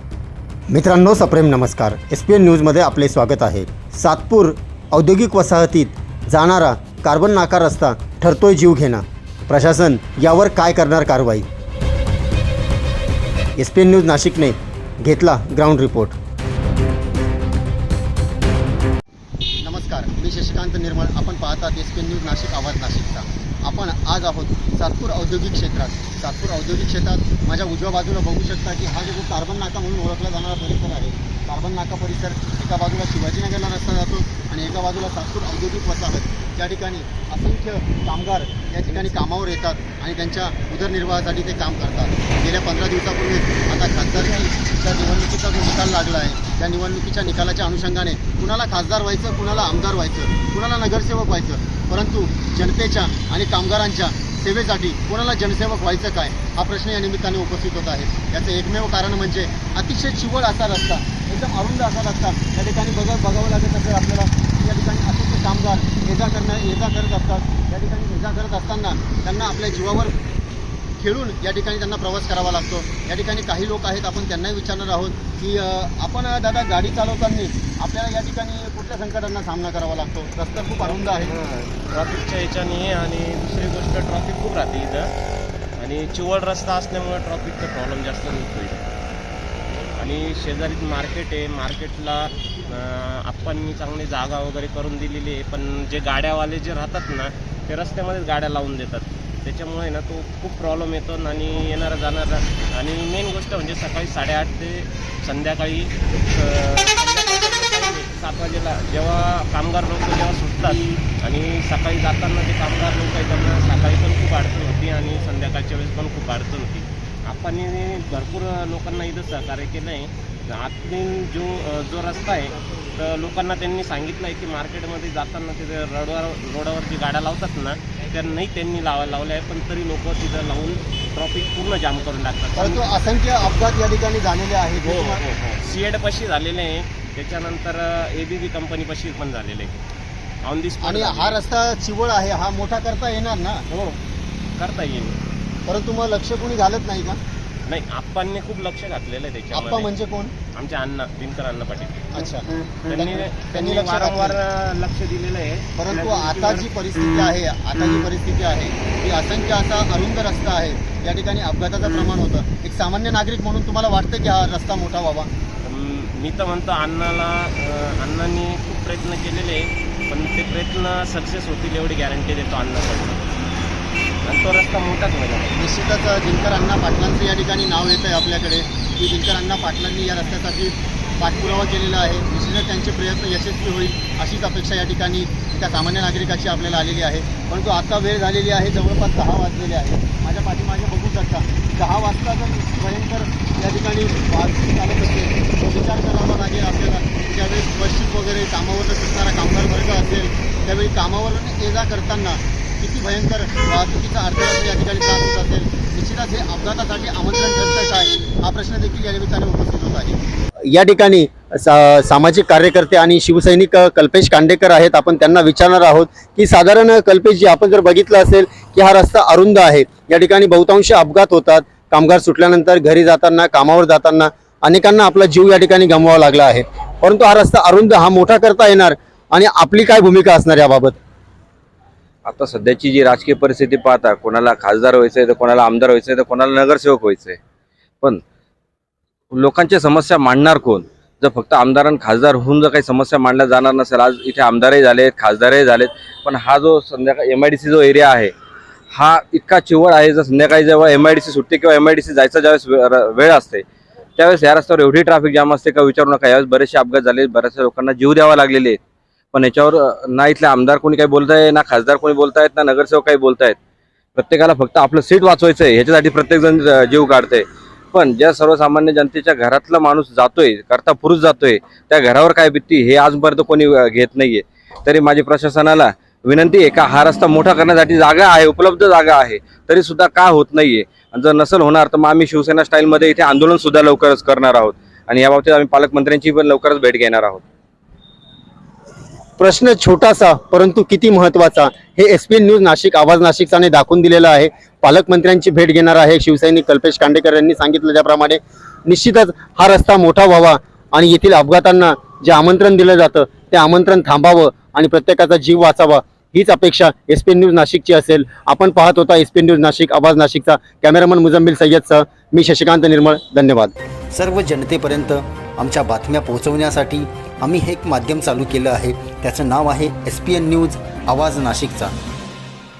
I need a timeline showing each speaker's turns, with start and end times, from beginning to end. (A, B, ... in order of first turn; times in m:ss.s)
0:00.7-0:11.5 A
0:13.6-0:16.2 A
0:19.6-1:10.1 A
1:11.0-1:21.3 A
1:20.9-1:25.1 B
1:25.8-1:28.9 B
1:30.0-2:13.0 B
2:12.6-2:15.2 A
2:14.8-2:19.8 B
2:20.4-2:21.4 B
2:20.8-2:23.6 A
2:23.7-2:24.0 B
2:24.6-2:25.2 B
2:25.7-2:27.2 A
2:27.6-2:29.9 B
2:29.5-2:30.3 A
2:30.5-2:32.2 B
2:32.1-2:34.4 A
2:32.8-2:36.6 B
2:35.8-2:45.3 A
2:45.6-2:53.4 B
2:54.2-2:55.6 B
2:55.6-3:30.2 A
3:30.7-3:51.0 A
3:52.2-3:57.4 C
3:59.3-4:08.3 C
4:08.9-4:13.6 C
4:14.2-4:18.8 C
4:19.3-4:23.6 C
4:24.2-4:47.4 C
4:49.4-5:13.7 A
5:14.1-5:21.9 D